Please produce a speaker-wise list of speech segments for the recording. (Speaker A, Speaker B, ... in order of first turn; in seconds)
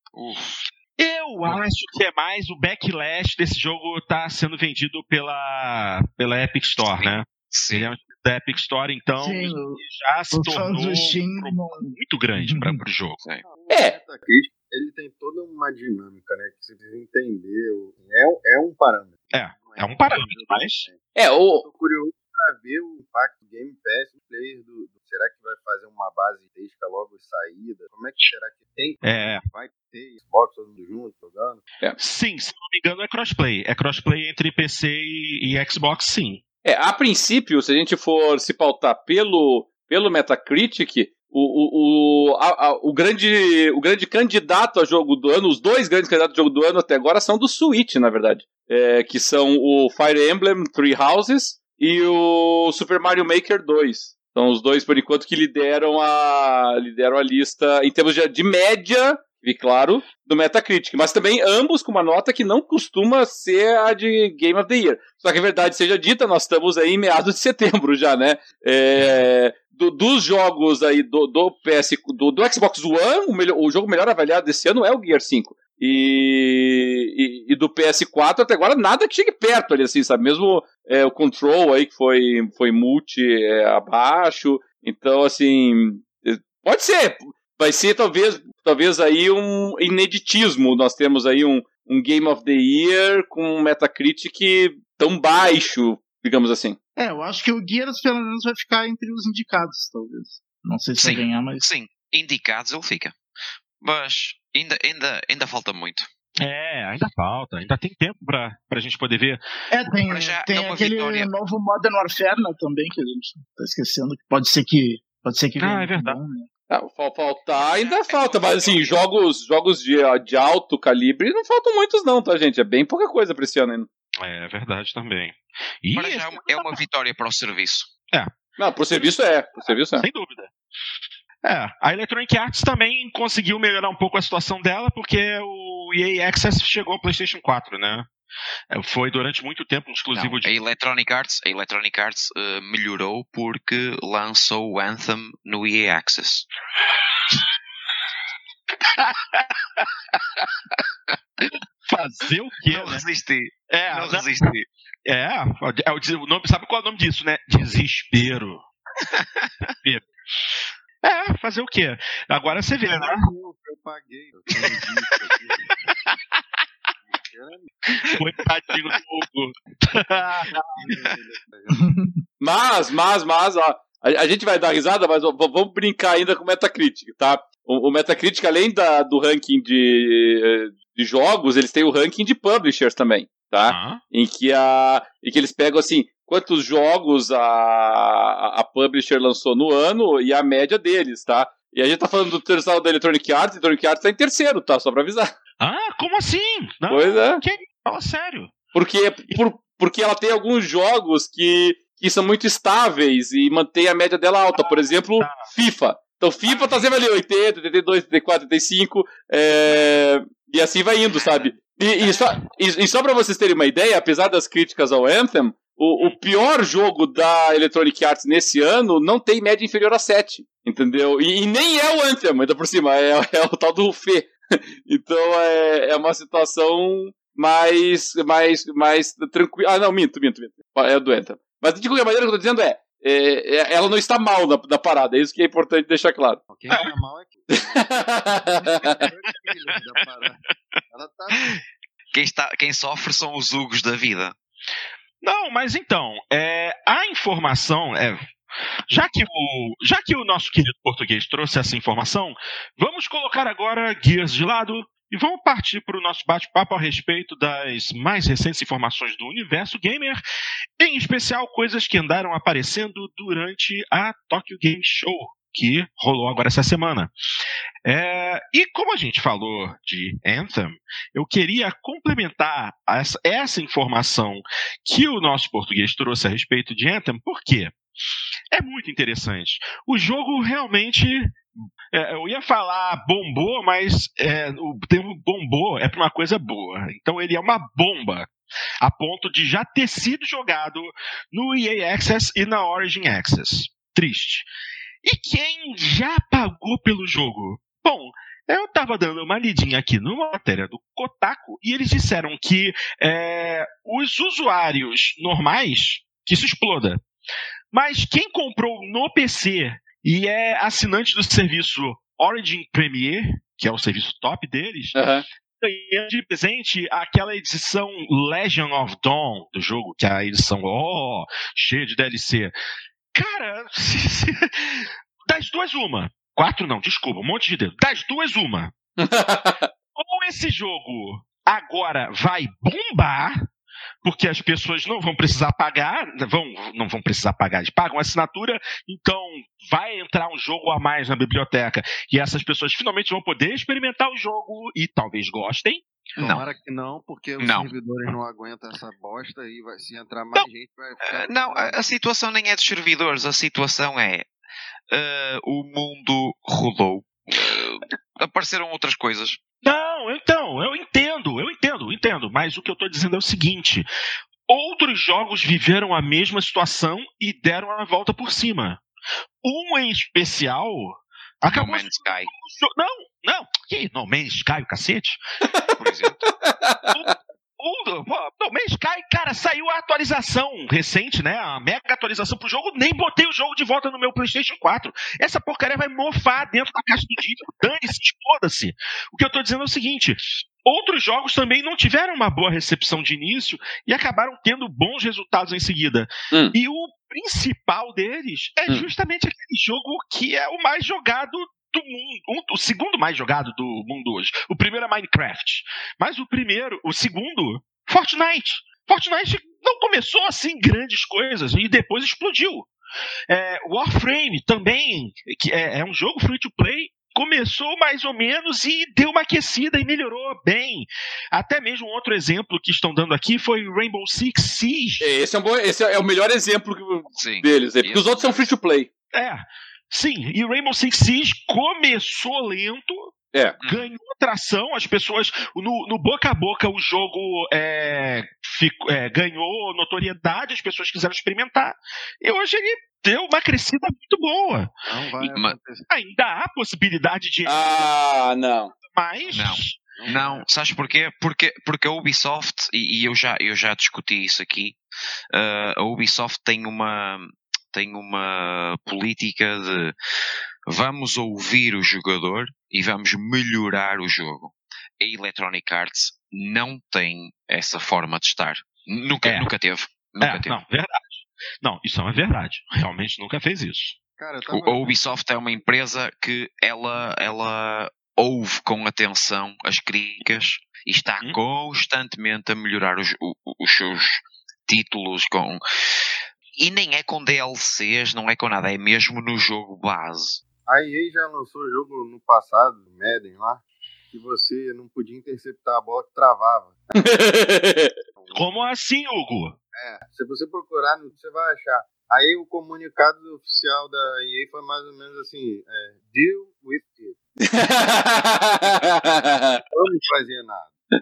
Speaker A: 0.1-0.7, 6.8-7.9, 101.0-103.1, 103.8-106.1, 110.1-111.3, 117.5-119.1, 126.0-127.9, 140.1-146.5, 152.7-154.7, 242.1-244.3, 346.2-346.4, 347.4-347.7, 351.1-354.2, 354.9-359.4, 371.4-372.3, 375.8-376.2, 427.1-428.5, 433.6-433.9, 449.3-454.8, 455.3-459.9, 460.7-470.6, 474.5-485.6, 486.6-490.4
Speaker B: 1.0-13.2, 19.3-20.9, 29.0-29.4, 32.0-36.4, 106.4-109.4, 115.6-116.2, 124.2-126.8, 129.6-130.5, 131.4-138.1, 138.7-140.5, 148.9-150.8, 151.4-153.0, 153.7-154.5, 155.1-158.6, 159.6-163.3, 164.5-165.1, 165.7-166.4, 168.0-171.2, 183.7-184.0, 195.6-198.6, 204.6-205.5, 206.5-206.8, 212.0-212.4, 240.4-240.8, 241.3-241.6, 245.2-248.2, 248.9-260.2, 260.8-267.1, 267.8-277.8, 278.5-288.3, 288.8-294.5, 295.0-307.0, 307.7-322.5, 323.1-328.7, 329.9-333.4, 334.0-345.9, 359.6-363.9, 364.5-368.8, 369.4-375.2, 376.9-412.7, 413.3-425.1, 429.1-433.1, 433.6-445.3, 445.9-447.8, 448.9-449.8, 469.2-469.5, 470.2-474.0, 498.3-499.6
Speaker C: 9.2-12.8, 97.0-101.6, 109.7-116.5, 171.7-172.2
Speaker D: 13.4-31.6, 162.8-165.9, 167.1-167.7, 170.0-171.9, 236.5-240.4, 240.9-241.6, 346.2-351.8, 444.9-445.9, 449.9-450.5, 474.2-474.9, 490.6-497.1, 498.2-498.5, 499.7-507.4, 509.7-510.7
Speaker E: 13.7-14.0, 21.1-21.6, 36.6-96.8, 116.7-123.9, 128.6-130.1, 172.4-195.3, 196.9-197.4, 198.7-236.4, 237.5-239.0, 314.9-315.2, 329.0-329.7, 375.5-377.1, 396.3-396.6, 425.0-428.9, 433.3-433.6, 447.4-448.7, 497.0-497.9, 507.4-509.6